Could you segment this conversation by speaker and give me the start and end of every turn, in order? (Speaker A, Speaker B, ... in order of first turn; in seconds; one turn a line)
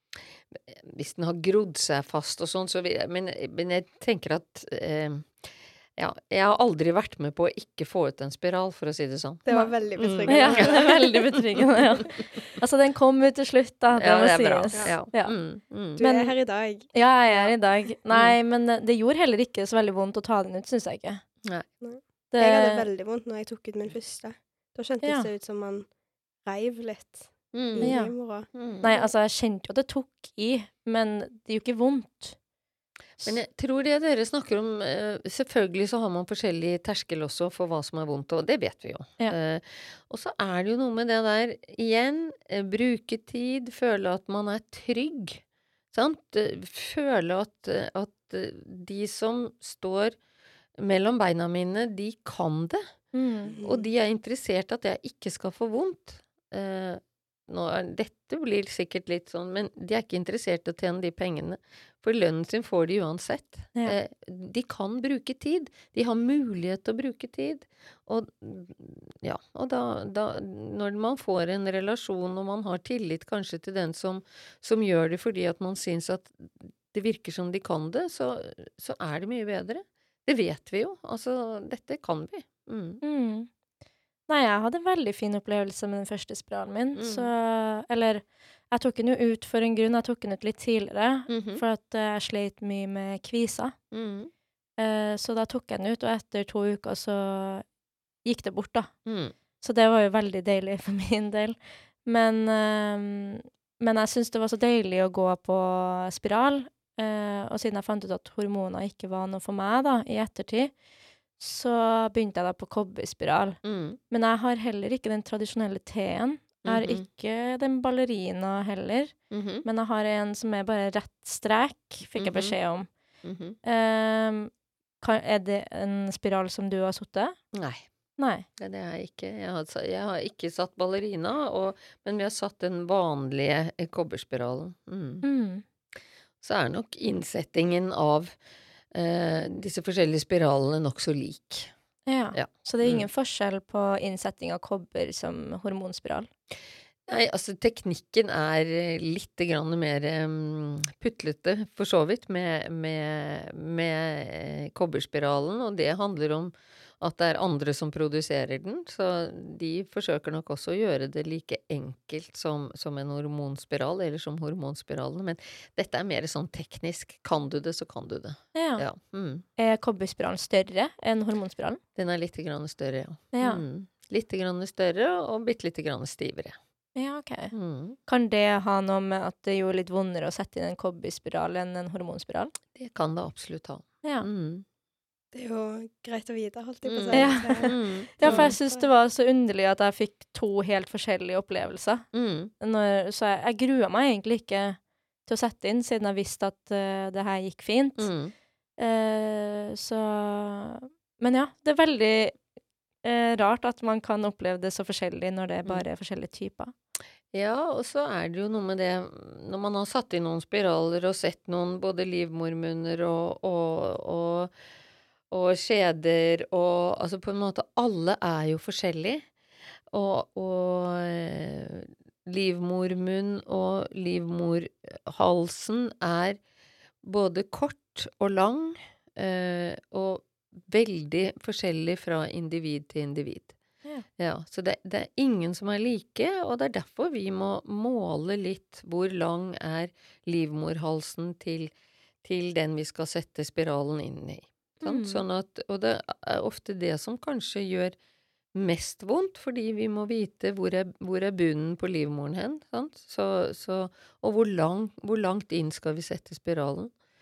Speaker A: 0.5-5.5
Speaker A: 6.0-12.1
Speaker B: 9.4-10.9
Speaker C: 9.5-9.7
Speaker C: 10.3-15.3
Speaker A: 13.9-16.0
Speaker C: 16.0-16.4
Speaker B: 16.0-17.5
Speaker C: 16.9-21.2
Speaker A: 18.1-18.4
Speaker B: 21.8-25.9
Speaker C: 22.3-22.8
Speaker C: 25.0-25.3
Speaker B: 26.4-29.1
Speaker A: 27.5-28.0
Speaker C: 27.8-28.1
Speaker A: 28.5-28.9
Speaker C: 28.8-32.4
Speaker A: 33.2-50.1
Speaker A: 50.8-52.8
Speaker C: 53.1-53.5
Speaker B: 53.4-53.9
Speaker A: 53.6-83.0
Speaker C: 83.0-83.5
Speaker C: 84.3-93.7
Speaker A: 87.0-87.3
Speaker A: 91.3-91.6
Speaker A: 93.9-94.3
Speaker C: 94.8-97.6
Speaker C: 98.2-98.9
Speaker A: 99.0-99.3
Speaker C: 99.6-110.7
Speaker C: 111.4-113.6
Speaker A: 113.6-114.0
Speaker C: 114.1-122.9
Speaker A: 116.6-117.0
Speaker A: 119.3-119.6
Speaker A: 122.1-122.5
Speaker A: 123.2-123.6
Speaker C: 123.6-127.4
Speaker A: 127.5-127.9
Speaker C: 128.2-128.4
Speaker A: 128.6-135.2
Speaker C: 135.2-135.6
Speaker A: 136.4-138.3
Speaker A: 138.9-141.7
Speaker C: 142.1-146.3
Speaker A: 142.3-143.1
Speaker A: 147.1-169.4
Speaker C: 168.5-168.8
Speaker C: 169.6-171.8
Speaker A: 171.9-176.6
Speaker C: 173.3-173.6
Speaker C: 176.9-177.5
Speaker A: 177.5-178.0
Speaker C: 178.1-182.5
Speaker A: 182.7-184.6
Speaker C: 184.0-184.3
Speaker B: 185.3-188.9
Speaker A: 186.8-188.5
Speaker C: 187.1-192.1
Speaker A: 192.1-192.5
Speaker C: 192.6-198.1
Speaker A: 198.0-198.3
Speaker C: 198.8-202.4
Speaker C: 203.0-206.7
Speaker A: 207.3-214.5
Speaker A: 215.3-219.2
Speaker A: 219.9-226.4
Speaker A: 227.0-233.6
Speaker A: 234.2-241.7
Speaker A: 242.2-247.9
Speaker C: 244.8-245.2
Speaker A: 248.5-256.9